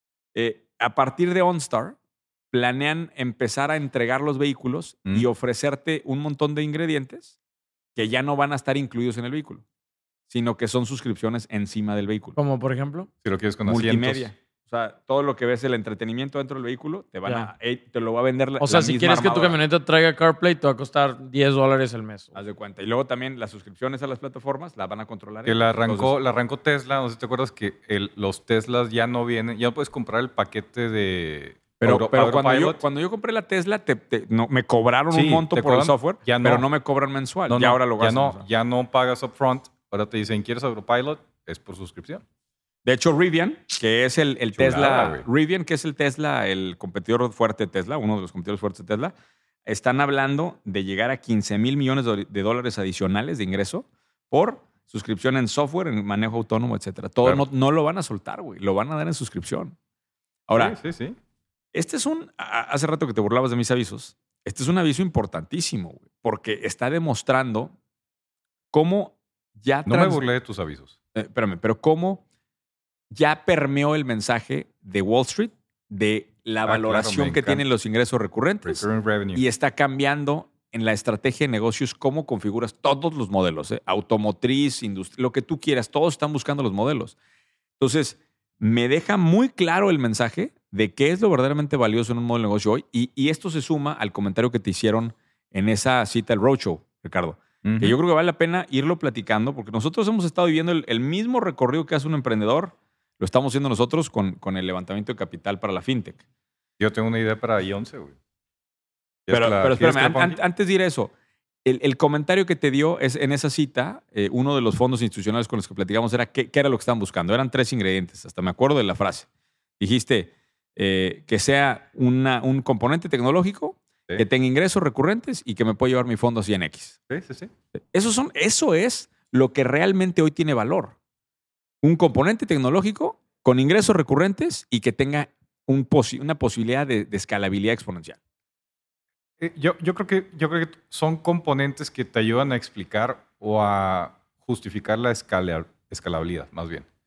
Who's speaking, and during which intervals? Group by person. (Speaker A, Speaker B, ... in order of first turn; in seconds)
Speaker A: 0.3-1.9, 2.5-7.3, 8.0-9.6, 10.3-12.4, 13.7-19.6, 22.3-26.1, 31.8-38.5, 42.8-49.1, 49.6-59.8, 60.5-60.8, 61.7-67.7, 68.7-70.2, 71.1-72.2, 73.1-87.1, 87.8-106.2, 109.3-111.1, 111.6-119.3, 119.8-127.0, 127.9-130.9, 131.8-138.2
Speaker B: 12.3-13.1, 17.2-17.5, 18.6-22.4
Speaker C: 13.2-14.3, 25.4-32.8, 35.1-36.7, 37.5-42.2, 44.5-45.2, 60.5-61.2, 69.8-70.9, 76.7-77.7, 78.6-79.4, 97.6-98.0, 106.8-108.1, 109.2-110.4, 127.1-127.5, 139.4-146.9